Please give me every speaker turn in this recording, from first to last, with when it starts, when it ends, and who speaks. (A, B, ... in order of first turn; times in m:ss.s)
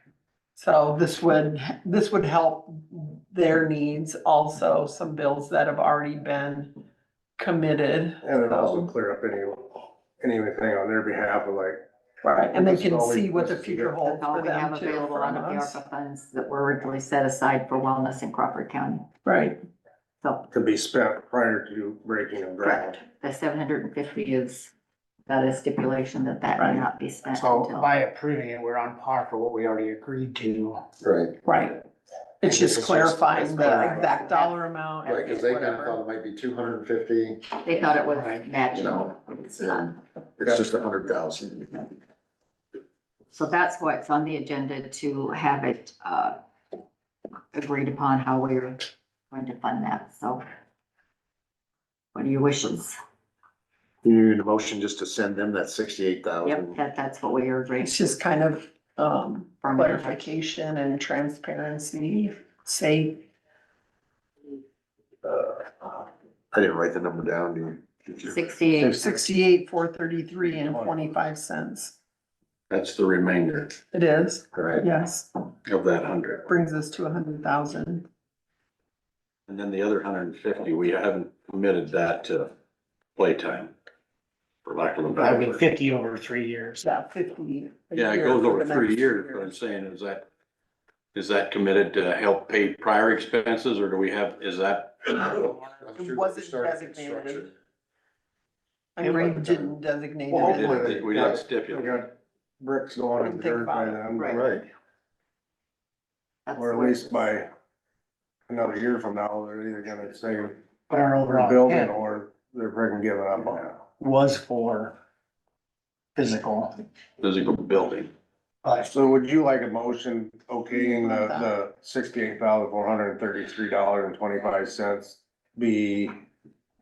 0:00.6-0:06.7 A
0:07.4-0:08.9 A
0:08.2-0:11.8 B
0:12.2-0:15.8 A
0:12.5-0:14.0 B
0:14.0-0:19.1 C
0:19.2-0:19.6 A
0:20.2-0:20.5 C
0:20.5-0:23.0 B
0:22.6-0:24.7 C
0:25.3-0:27.9 C
0:26.6-0:26.9 A
0:27.3-0:30.8 D
0:31.0-0:31.4 E
0:31.4-0:31.8 A
0:32.4-0:36.0 A
0:32.8-0:34.0 E
0:33.6-0:34.6 C
0:35.0-0:37.4 E
0:37.5-0:39.8 C
0:38.2-0:38.5 D
0:38.7-0:41.9 E
0:43.3-0:46.4 C
0:47.5-0:50.4 C
0:52.1-0:53.0 C
0:54.0-0:56.8 E
0:56.4-0:58.1 C
0:57.8-1:03.2 A
0:59.6-1:00.3 C
1:05.2-1:08.4 E
1:08.2-1:09.2 C
1:08.8-1:12.0 A
1:10.5-1:11.0 B
1:12.7-1:13.8 F
1:13.9-1:15.3 A
1:14.5-1:14.9 E
1:15.7-1:16.5 F
1:16.4-1:18.1 A
1:19.5-1:22.5 F
1:23.2-1:23.7 F
1:24.6-1:25.7 F
1:25.2-1:26.8 D
1:26.8-1:29.5 A
1:27.9-1:30.2 F
1:31.1-1:35.3 F
1:35.2-1:37.5 E
1:36.0-1:37.5 A
1:39.0-1:41.1 A
1:39.1-1:39.8 E
1:40.3-1:42.0 F
1:40.3-1:44.5 B
1:43.2-1:44.3 A
1:44.2-1:44.4 C
1:44.3-1:44.7 E
1:46.5-1:47.1 C
1:46.6-1:47.5 B
1:48.5-1:50.6 B
1:50.9-1:52.0 D
1:51.2-1:53.8 B
1:54.0-1:55.0 D
1:56.2-1:56.7 D
1:57.2-1:58.1 F
1:58.6-1:58.9 D
1:58.9-2:06.2 B
2:00.7-2:01.5 A